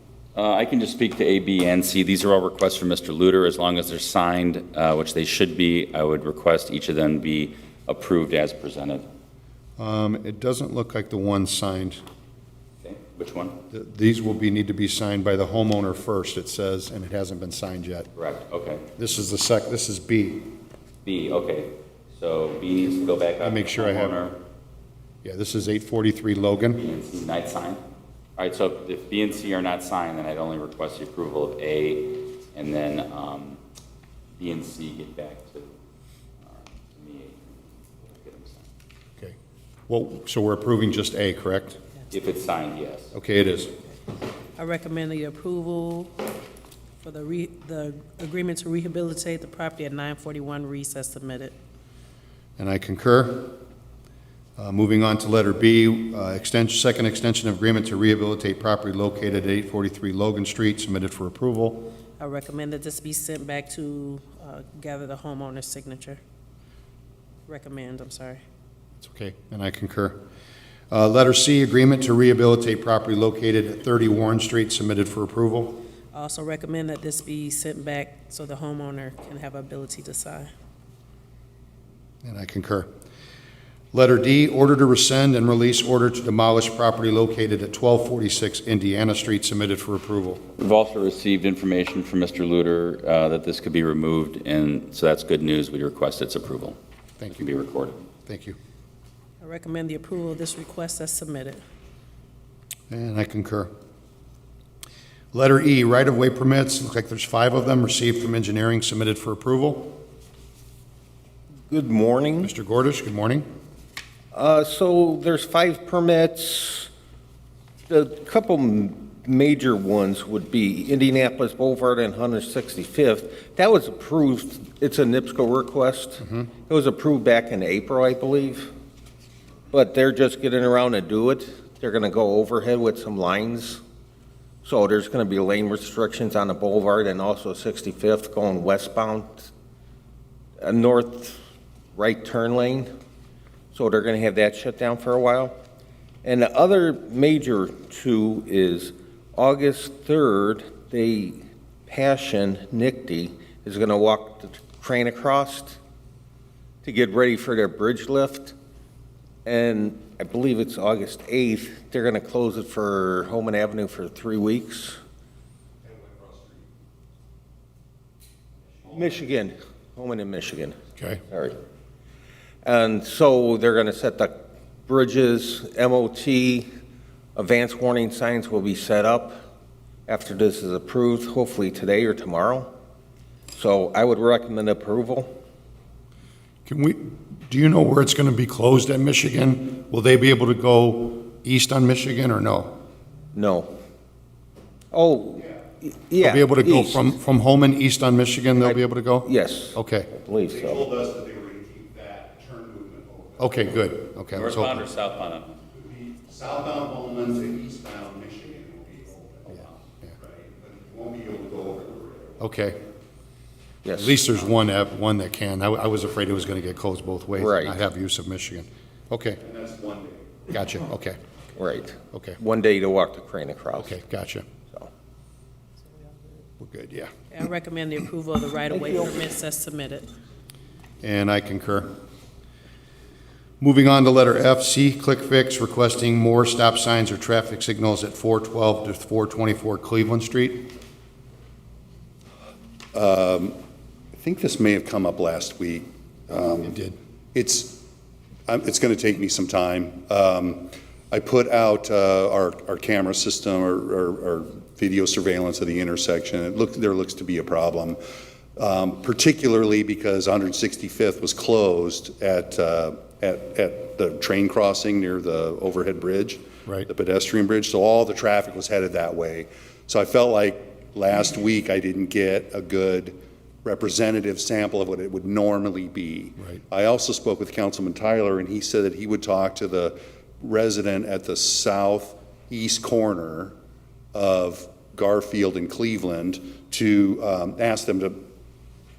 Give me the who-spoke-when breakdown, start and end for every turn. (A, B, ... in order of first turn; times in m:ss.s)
0:00.4-0:09.0 A
0:09.8-0:12.0 B
0:12.8-0:13.6 A
0:13.7-0:18.1 B
0:18.2-0:18.8 A
0:19.0-0:20.5 B
0:21.0-0:24.4 A
0:23.4-0:24.3 B
0:25.2-0:26.8 B
0:26.8-0:27.8 A
0:28.4-0:33.6 A
0:34.4-0:35.7 A
0:36.4-0:38.7 A
0:39.9-0:41.8 B
0:42.1-0:43.1 A
0:43.1-0:43.8 B
0:44.6-0:46.1 C
0:47.0-0:51.5 C
0:52.6-0:53.6 B
0:54.6-1:01.9 B
1:02.2-1:06.2 C
1:07.5-1:08.4 C
1:09.0-1:10.2 B
1:10.9-1:15.8 B
1:16.1-1:20.5 C
1:22.2-1:22.9 B
1:23.9-1:30.4 B
1:30.6-1:36.8 A
1:37.3-1:38.0 A
1:38.3-1:38.6 B
1:39.4-1:41.6 C
1:42.9-1:43.7 B
1:45.3-1:50.0 B
1:51.7-1:52.5 D
1:52.4-1:53.5 B
1:54.3-1:56.9 D
1:57.9-2:08.7 D
2:09.7-2:13.8 D
2:14.6-2:19.5 D
2:20.6-2:21.4 D
2:22.0-2:22.9 D
2:23.7-2:25.6 D
2:26.2-2:35.8 D
2:36.8-2:38.6 D
2:39.4-2:45.0 D
2:48.9-2:50.8 D
2:51.0-2:51.2 B
2:51.3-2:51.6 D
2:52.6-2:54.4 D
2:54.9-2:56.7 D
2:57.4-2:59.4 D
3:00.1-3:02.7 D
3:03.5-3:05.3 D
3:06.7-3:12.8 B
3:13.3-3:13.7 D
3:14.9-3:17.0 D
3:16.2-3:20.1 B
3:18.6-3:20.8 D
3:20.5-3:23.7 E
3:23.4-3:24.9 B
3:24.4-3:25.6 A
3:25.7-3:32.4 E
3:32.4-3:32.8 B
3:33.8-3:34.2 D
3:34.0-3:39.4 B
3:37.4-3:37.8 D
3:39.4-3:40.4 E
3:40.5-3:41.2 B
3:41.6-3:43.9 D
3:42.1-3:42.4 B
3:43.8-3:44.5 B
3:46.6-3:47.1 B
3:47.3-3:50.1 C
3:48.7-3:49.1 D
3:51.0-3:51.9 B
3:53.6-4:00.7 B
4:02.9-4:03.6 E
4:04.2-4:06.8 E
4:06.6-4:07.0 B
4:07.3-4:07.8 E
4:08.5-4:18.0 E
4:18.6-4:43.6 E
4:44.1-4:48.2 E